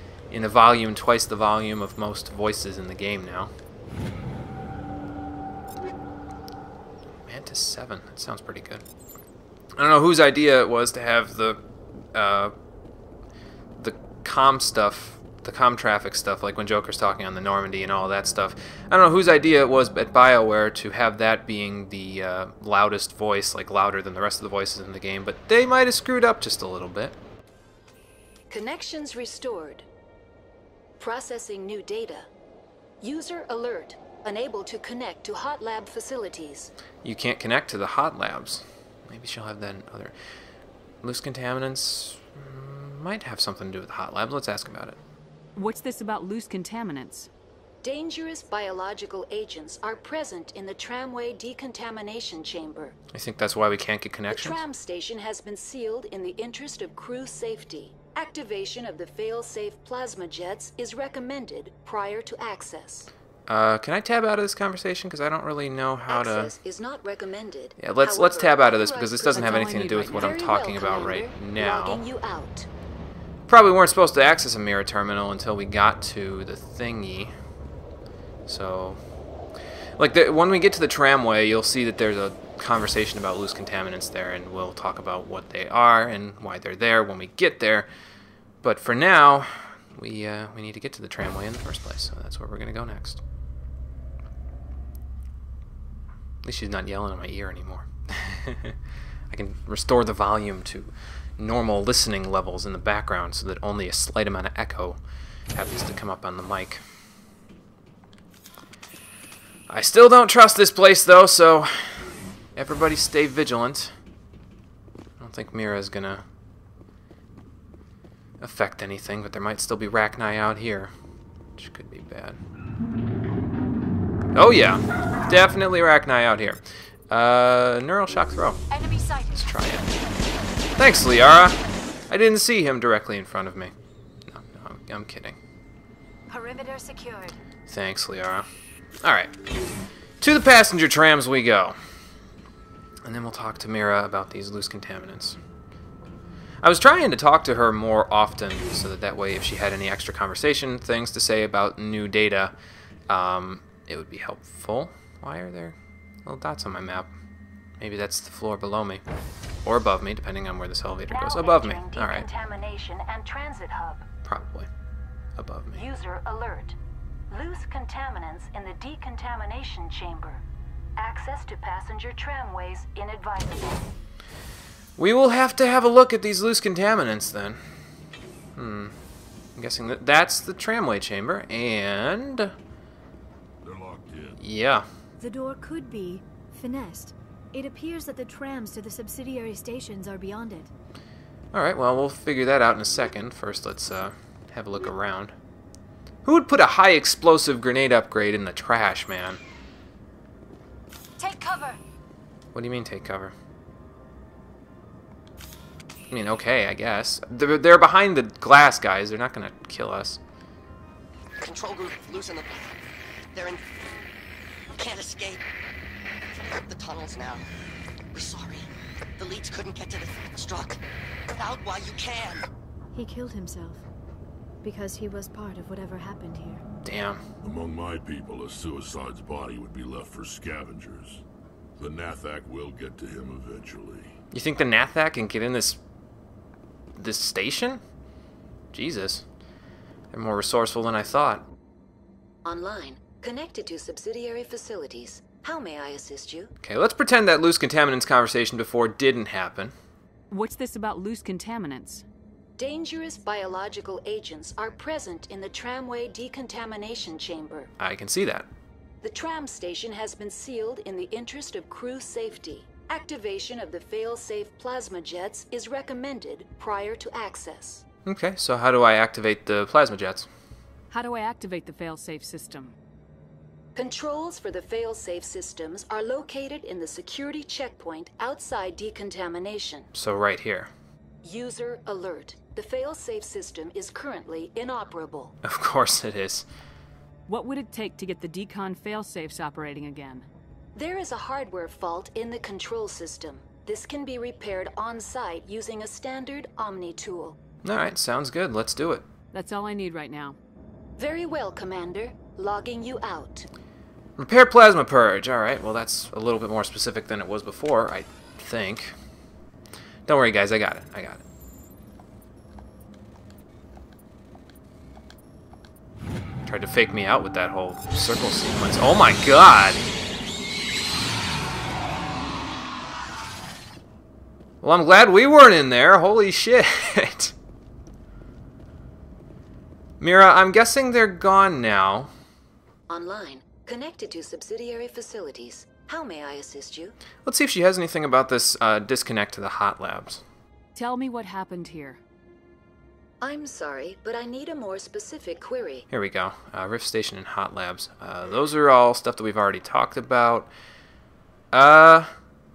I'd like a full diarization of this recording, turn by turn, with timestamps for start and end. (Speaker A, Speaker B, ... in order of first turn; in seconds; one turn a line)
Speaker A: 0.3-3.5
Speaker A: 7.2-8.8
Speaker A: 9.7-12.5
Speaker A: 13.8-27.1
Speaker B: 28.5-29.9
Speaker B: 31.0-32.3
Speaker B: 33.0-36.7
Speaker A: 37.0-40.1
Speaker A: 41.0-45.0
Speaker C: 45.5-47.3
Speaker B: 47.8-53.0
Speaker A: 53.1-54.6
Speaker B: 54.3-63.1
Speaker A: 63.5-66.5
Speaker B: 66.1-72.7
Speaker A: 67.8-72.0
Speaker C: 69.3-70.4
Speaker A: 73.5-77.3
Speaker A: 78.5-79.0
Speaker A: 80.0-87.9
Speaker A: 88.6-93.2
Speaker A: 96.4-98.8
Speaker A: 99.3-105.0
Speaker A: 105.5-106.8
Speaker A: 109.7-113.9
Speaker A: 115.2-116.2
Speaker A: 118.4-120.9
Speaker A: 121.5-122.4
Speaker A: 124.3-128.6
Speaker D: 128.7-129.4
Speaker A: 129.3-129.9
Speaker A: 130.8-133.7
Speaker A: 134.2-135.4
Speaker D: 136.3-137.4
Speaker A: 137.7-138.5
Speaker A: 139.0-139.3
Speaker A: 140.2-141.8
Speaker A: 143.0-145.4
Speaker A: 146.6-152.5
Speaker A: 153.1-157.1
Speaker A: 157.8-159.0
Speaker A: 159.6-162.3
Speaker B: 161.1-164.1
Speaker A: 164.2-164.7
Speaker A: 165.3-165.8
Speaker B: 165.8-166.8
Speaker B: 167.3-170.4
Speaker B: 171.0-173.9
Speaker A: 175.0-177.6
Speaker A: 178.6-178.9
Speaker A: 179.6-182.5
Speaker E: 183.6-184.4
Speaker A: 184.4-184.8
Speaker F: 185.2-190.7
Speaker A: 191.5-195.3
Speaker A: 196.2-199.4
Speaker D: 201.2-201.8
Speaker A: 202.5-203.3
Speaker A: 206.1-210.2
Speaker G: 211.4-213.6
Speaker G: 214.7-215.4
Speaker G: 216.3-217.5
Speaker G: 218.1-222.5
Speaker F: 222.9-223.8
Speaker F: 224.6-226.6
Speaker A: 226.8-227.2
Speaker E: 227.4-231.2
Speaker E: 231.8-234.2
Speaker A: 234.3-235.8
Speaker A: 236.9-237.8
Speaker A: 238.7-239.2
Speaker A: 240.1-241.4
Speaker B: 242.4-246.5
Speaker A: 246.6-249.7
Speaker C: 250.3-252.0
Speaker B: 252.6-257.7
Speaker A: 257.8-258.5
Speaker B: 259.0-267.8
Speaker A: 268.0-270.3
Speaker C: 270.9-272.7
Speaker B: 273.7-279.9
Speaker A: 279.9-280.7
Speaker B: 281.2-285.3
Speaker A: 285.4-286.4
Speaker C: 287.3-290.2
Speaker B: 290.7-297.4
Speaker A: 297.6-299.0
Speaker C: 299.3-300.4
Speaker B: 301.0-303.5
Speaker A: 304.2-308.9
Speaker A: 310.1-311.2
Speaker A: 316.4-319.9
Speaker A: 324.6-327.3
Speaker A: 330.0-332.1
Speaker B: 332.9-336.9
Speaker A: 337.2-340.2
Speaker C: 340.7-342.0
Speaker B: 343.2-345.9
Speaker A: 345.9-350.5
Speaker A: 351.5-352.1